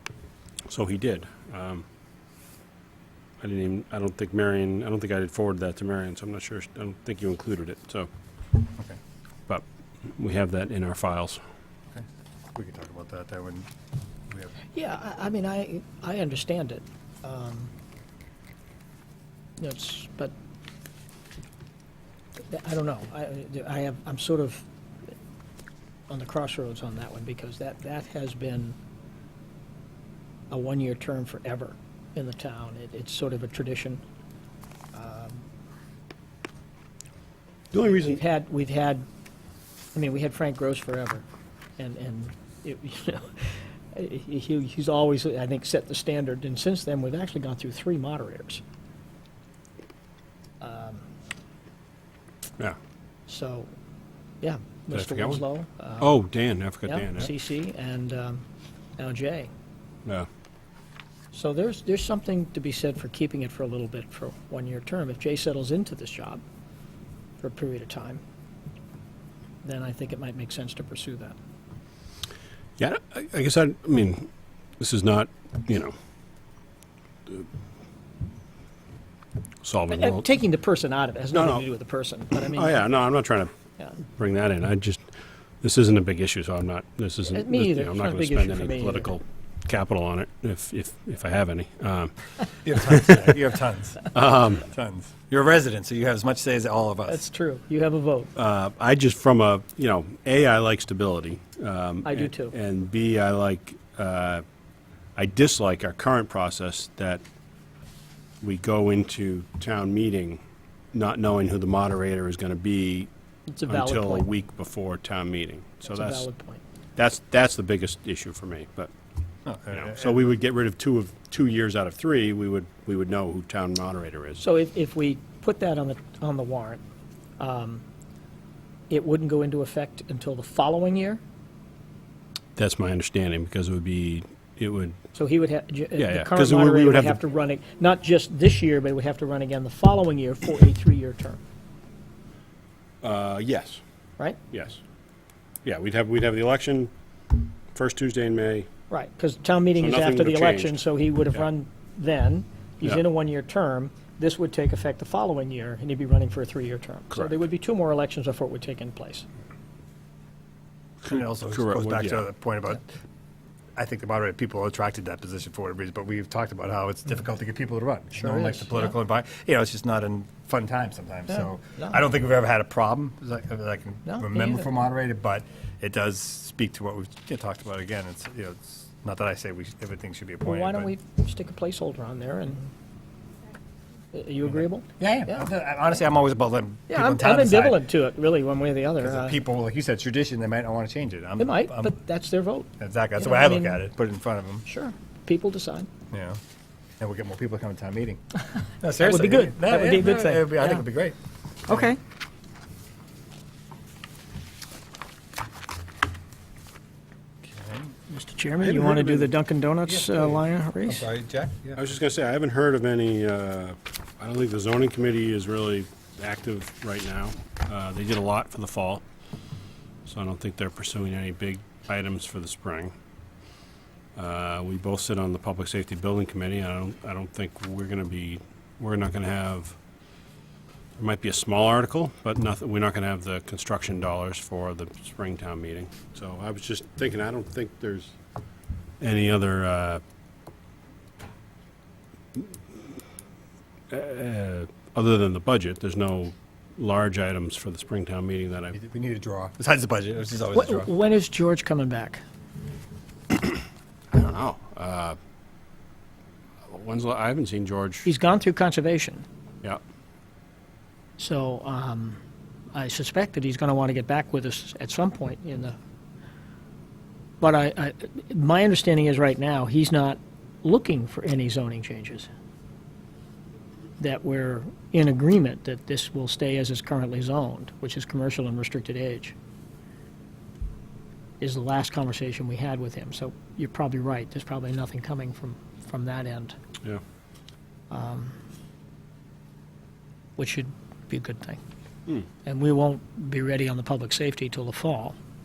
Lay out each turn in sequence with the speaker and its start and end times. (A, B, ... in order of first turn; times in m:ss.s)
0:00.7-0:01.8 A
0:03.4-0:08.1 A
0:09.5-0:11.4 A
0:12.5-0:13.7 B
0:14.3-0:14.6 B
0:14.7-0:17.7 C
0:19.6-0:20.3 C
0:22.4-0:24.6 C
0:26.1-0:28.8 C
0:30.5-0:34.0 C
0:34.9-0:35.5 C
0:37.7-0:38.2 A
0:38.0-0:39.0 C
0:39.9-0:41.2 C
0:41.8-0:48.6 C
0:50.6-0:51.1 C
0:53.3-0:53.7 C
0:54.4-0:56.1 C
0:54.9-0:55.4 A
0:56.0-0:57.3 A
0:56.8-0:58.4 C
0:59.0-0:59.5 C
1:01.3-1:06.4 C
1:07.4-1:08.2 C
1:09.6-1:11.4 C
1:12.8-1:15.9 A
1:19.6-1:20.3 A
1:19.9-1:22.8 C
1:21.3-1:21.6 A
1:22.4-1:23.5 A
1:24.0-1:33.3 A
1:27.2-1:29.1 C
1:32.6-1:34.1 B
1:34.0-1:34.7 A
1:34.6-1:37.2 B
1:37.1-1:38.3 C
1:38.4-1:44.4 A
1:42.0-1:42.5 C
1:45.2-1:47.2 A
1:48.4-1:50.4 A
1:50.9-1:53.1 A
1:53.5-1:54.3 C
1:53.7-1:56.2 A
1:55.8-1:56.6 C
1:57.0-1:58.9 A
1:59.4-2:00.4 B
1:59.7-2:04.4 A
2:04.4-2:06.8 C
2:07.4-2:07.8 C
2:08.9-2:11.2 C
2:12.6-2:15.0 A
2:15.1-2:21.4 C
2:16.0-2:17.2 A
2:23.0-2:23.8 A
2:24.5-2:24.8 A
2:25.6-2:26.9 A
2:27.7-2:28.7 A
2:28.9-2:39.2 C
2:29.8-2:30.8 A
2:41.0-2:42.8 B
2:41.1-2:42.2 A
2:43.8-3:00.9 B
2:48.1-2:48.9 C
2:51.3-2:52.0 C
2:54.1-2:54.7 C
3:00.4-3:02.7 C
3:04.1-3:05.4 C
3:04.4-3:07.8 B
3:06.9-3:09.4 C
3:09.0-3:11.9 B
3:11.4-3:13.8 C
3:12.8-3:14.6 B
3:14.6-3:15.9 C
3:16.1-3:16.4 B
3:17.0-3:18.2 B
3:18.8-3:21.2 B
3:19.0-3:20.8 C
3:21.7-3:22.0 C
3:21.7-3:21.9 B
3:27.4-3:27.9 B
3:28.1-3:31.0 C
3:28.6-3:29.3 B
3:29.8-3:31.8 B
3:31.8-3:39.0 A
3:40.0-3:42.9 A
3:44.2-3:49.8 A
3:51.0-3:58.1 A
3:59.0-4:00.0 A
4:03.9-4:08.7 A
4:08.7-4:10.9 B
4:10.5-4:12.2 C
4:14.1-4:15.2 A
4:16.6-4:18.1 A
4:18.0-4:19.2 C
4:21.2-4:22.2 C
4:22.7-4:25.7 C
4:27.4-4:32.3 C
4:34.0-4:39.3 C
4:41.4-4:46.5 C
4:47.9-4:48.3 C
4:50.4-4:51.6 C
4:52.4-4:55.2 C